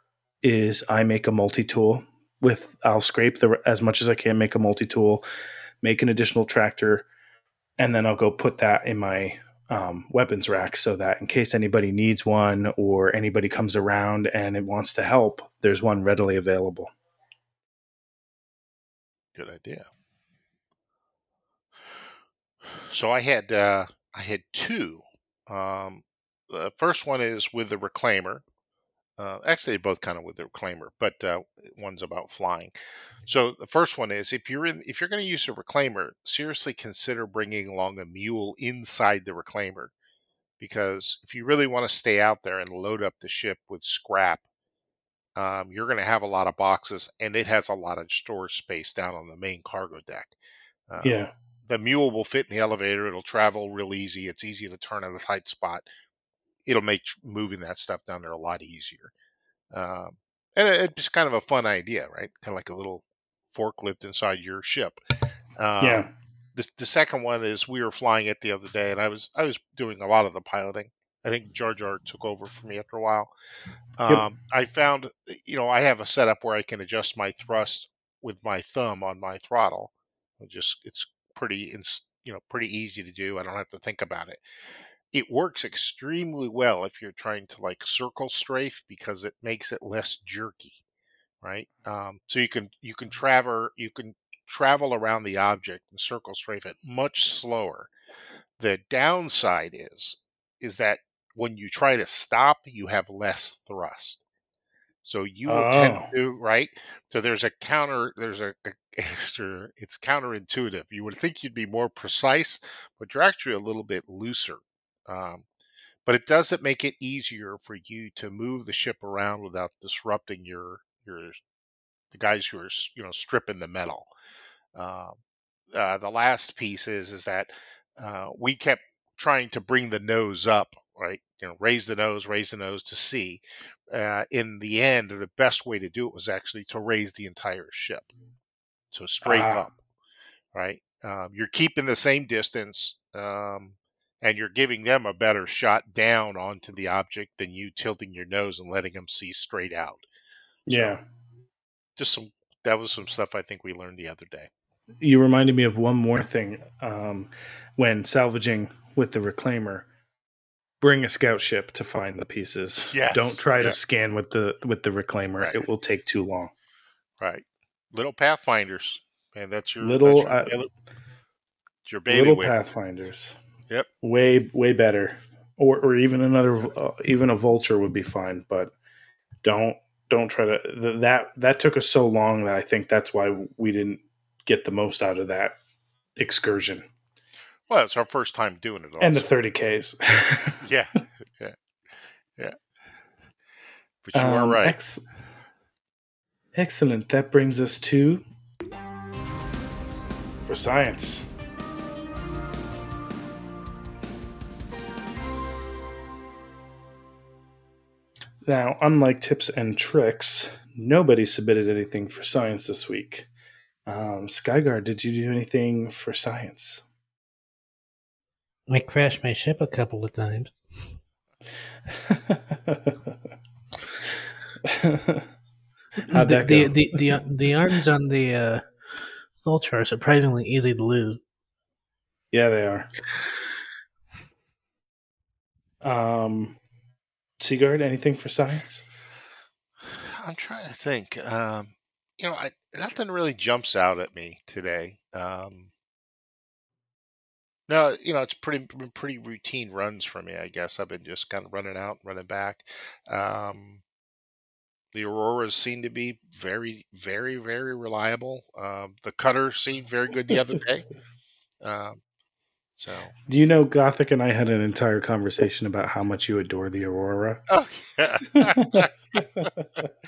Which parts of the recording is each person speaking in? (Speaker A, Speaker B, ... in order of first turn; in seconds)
Speaker A: 0.4-5.3, 5.8-7.1, 7.8-16.9, 51.0-51.3, 65.8-66.1, 105.5-106.1, 139.2-139.7, 150.7-151.0, 155.0-159.9, 160.8-166.5, 169.8-170.5, 172.1-173.4, 174.0-178.7, 179.4-185.6, 186.2-186.9, 189.0-190.6, 194.1-195.0, 196.6-198.2, 200.4-201.3, 208.4-213.3, 213.9-216.8, 222.0-223.0, 224.7-225.3, 226.1-226.9, 232.3-232.9, 235.8-236.6, 237.4-238.8, 263.3-267.4, 268.4-269.9
Speaker B: 19.4-19.9, 22.7-28.4, 29.2-32.7, 33.3-39.9, 40.6-44.5, 45.4-50.3, 50.9-51.1, 51.7-55.9, 56.7-59.1, 59.7-65.0, 65.6-73.3, 74.0-84.4, 85.1-90.8, 91.4-97.9, 98.6-104.2, 105.0-115.5, 116.1-121.4, 122.1-124.1, 124.8-125.2, 125.7-138.1, 138.9-139.7, 140.5-150.0, 150.7-151.0, 152.0-154.5, 162.9-163.8, 165.4-165.7, 167.2-170.7, 171.9-172.5, 187.7-189.3, 190.6-191.6, 194.0-194.8, 239.8-245.7, 247.7-253.8, 254.9-260.9, 261.6-262.0, 262.8-263.1, 267.5-268.9
Speaker C: 218.7-220.5, 226.1-231.2